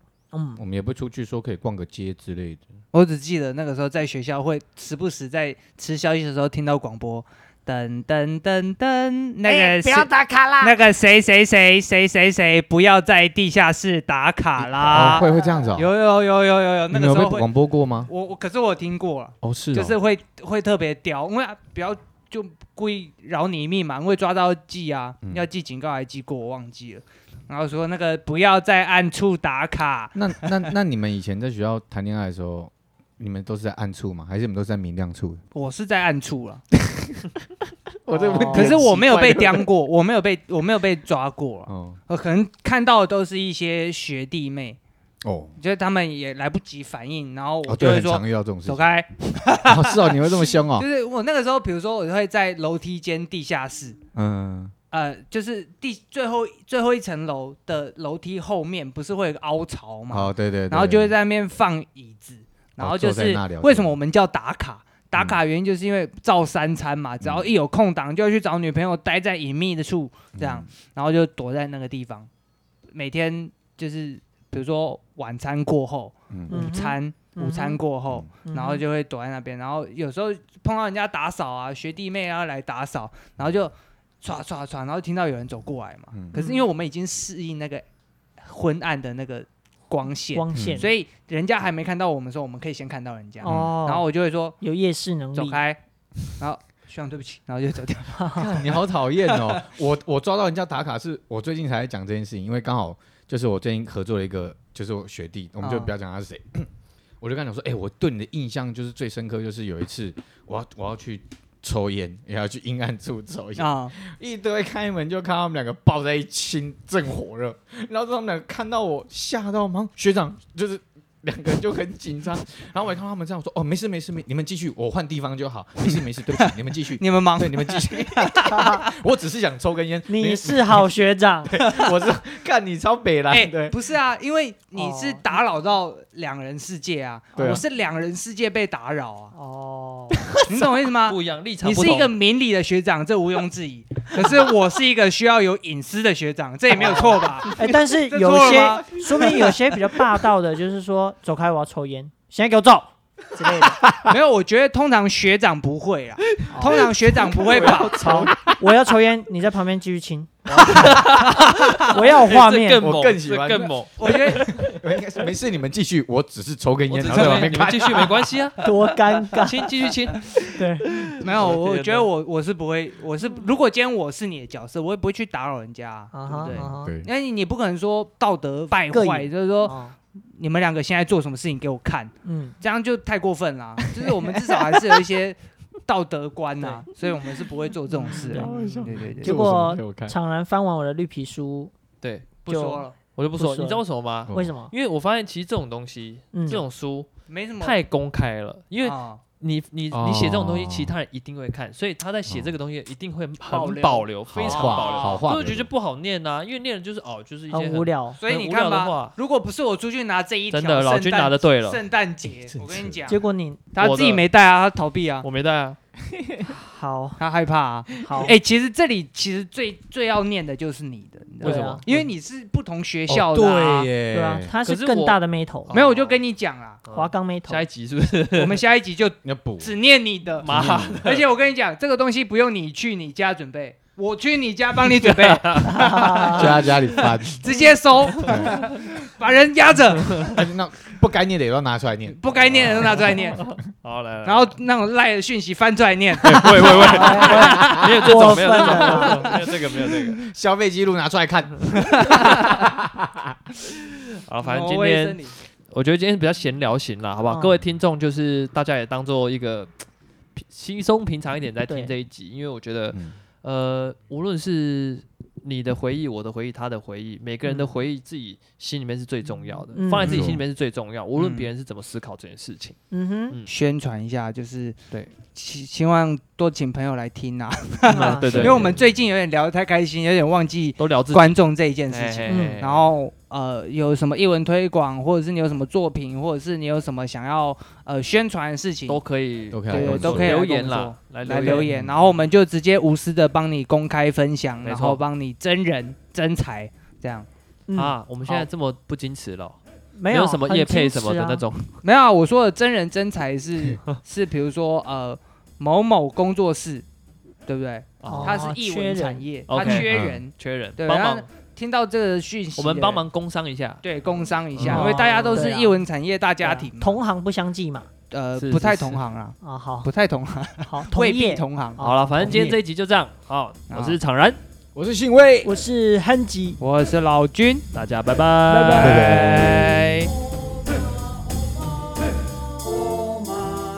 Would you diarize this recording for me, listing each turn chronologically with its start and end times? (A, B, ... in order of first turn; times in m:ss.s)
0:00.3-0:00.6 A
0:00.6-0:02.6 B
0:02.9-0:10.1 C
0:09.4-0:10.8 A
0:10.6-0:17.5 C
0:14.8-0:15.9 B
0:16.9-0:18.1 B
0:18.1-0:30.7 C
0:19.4-0:20.0 B
0:25.2-0:25.5 B
0:30.1-0:35.4 B
0:35.5-0:36.6 C
0:36.7-0:37.3 B
0:38.0-0:39.7 B
0:38.3-0:38.8 A
0:38.3-0:44.8 C
0:41.7-0:42.0 B
0:45.2-0:45.6 B
0:45.6-0:54.0 C
0:47.6-0:48.9 B
0:49.6-0:50.9 B
0:54.1-0:54.7 B
0:54.9-1:12.3 C
1:00.1-1:01.2 B
1:02.8-1:04.0 B
1:07.2-1:07.5 B
1:10.4-1:10.7 B
1:12.9-1:27.8 C
1:16.3-1:16.6 B
1:16.5-1:17.8 A
1:18.4-1:18.8 A
1:26.1-1:26.4 B
1:26.4-1:26.7 A
1:28.4-1:34.6 C
1:30.3-1:30.9 A
1:30.5-1:30.9 B
1:33.4-1:34.0 A
1:33.4-1:33.7 B
1:34.6-1:35.6 A
1:35.3-1:35.8 C
1:36.3-1:39.6 C
1:38.1-1:38.5 A
1:38.3-1:46.7 B
1:45.6-1:45.9 C
1:47.2-2:10.9 B
1:53.6-1:54.0 C
2:05.8-2:08.9 C
2:08.4-2:08.9 A
2:10.1-2:11.6 A
2:11.5-2:13.8 B
2:13.3-2:19.3 C
2:14.8-2:15.2 A
2:17.4-2:17.6 B
2:19.3-2:20.4 A
2:20.3-2:29.6 C
2:21.0-2:22.1 D
2:26.7-2:33.8 A
2:33.8-2:34.1 B
2:34.0-2:38.1 C
2:36.5-2:36.8 A
2:36.8-2:38.7 B
2:37.6-2:42.9 A
2:40.5-2:44.7 D
2:42.7-2:48.4 B
2:44.0-2:44.5 C
2:46.9-2:48.6 D
2:47.0-2:47.6 C
2:48.6-2:49.8 A
2:49.3-2:52.1 D
2:50.5-2:51.0 A
2:51.2-2:59.8 C
2:56.1-2:56.9 A
2:56.3-2:56.7 D
2:56.5-2:57.1 B
2:58.9-3:00.0 A
3:00.3-3:09.5 C
3:02.2-3:02.6 A
3:04.0-3:04.8 B
3:07.9-3:11.7 A
3:08.3-3:10.1 B
3:12.0-3:12.5 D
3:12.5-3:12.8 A
3:12.5-3:12.9 C
3:13.1-3:17.1 D
3:13.4-3:14.7 A
3:14.3-3:14.5 B
3:16.3-3:16.6 A
3:17.3-3:17.8 C
3:17.6-3:29.1 D
3:18.8-3:19.2 C
3:19.9-3:20.9 B
3:22.2-3:22.5 B
3:23.4-3:25.2 C
3:24.3-3:25.7 B
3:27.5-3:28.2 A
3:28.2-3:33.2 C
3:30.5-3:31.8 D
3:32.3-3:33.1 B
3:33.1-3:33.6 A
3:33.7-3:35.2 C
3:33.8-3:34.2 D
3:35.2-3:35.8 D
3:36.1-3:36.5 B
3:36.4-3:37.2 A
3:37.2-3:43.9 C
3:38.0-3:38.3 A
3:41.4-3:41.8 D
3:41.4-3:41.8 A
3:43.1-3:44.5 B
3:44.1-3:45.8 A
3:44.6-3:45.2 D
3:45.7-3:46.8 C
3:45.7-3:46.0 D
3:46.9-3:48.6 D
3:46.9-3:47.6 A
3:48.3-3:56.7 C
3:49.2-3:49.8 B
3:50.4-3:51.2 D
3:50.4-3:51.0 B
3:55.0-3:56.3 D
3:55.7-3:56.5 A
3:56.3-3:57.5 B
3:57.2-4:00.4 C
3:58.1-3:58.8 B
3:58.2-3:58.7 D
4:00.1-4:03.6 B
4:02.2-4:03.4 C
4:03.8-4:04.6 D
4:04.2-4:07.5 C
4:06.2-4:10.2 D
4:06.2-4:09.1 B
4:06.8-4:09.4 A
4:09.8-4:13.7 B
4:14.2-4:19.7 D
4:14.4-4:15.3 C
4:17.3-4:17.6 A
4:20.4-4:32.8 D
4:21.6-4:21.9 A
4:27.4-4:27.7 A
4:29.7-4:30.3 A
4:30.0-4:30.4 B
4:31.1-4:31.5 C
4:32.9-4:33.4 A
4:33.4-4:49.0 C
4:37.9-4:38.6 A
4:37.9-4:38.8 D
4:38.3-4:38.7 B
4:40.8-4:42.9 D
4:42.3-4:42.6 A
4:48.9-4:51.7 D
4:49.5-4:50.4 B
4:49.7-4:57.3 C
4:51.6-4:52.1 B
4:54.6-4:55.0 D
4:57.7-4:58.5 A
4:57.7-5:01.7 D
5:00.0-5:01.4 A
5:01.8-5:06.8 C
5:07.5-5:13.0 C
5:08.0-5:08.4 D
5:08.1-5:09.2 A
5:09.5-5:11.3 D
5:09.7-5:10.2 B
5:12.6-5:13.8 D
5:13.8-5:17.0 C
5:14.6-5:15.5 D
5:14.7-5:15.8 A
5:16.4-5:17.9 A
5:18.1-5:22.5 C
5:18.4-5:19.0 D
5:19.4-5:19.9 A
5:20.7-5:22.6 A
5:21.8-5:24.4 D
5:23.7-5:24.0 C
5:24.7-5:25.5 B
5:25.4-5:26.6 A
5:26.6-5:27.6 C
5:27.7-5:30.1 D
5:28.5-5:29.3 A
5:28.8-5:29.8 B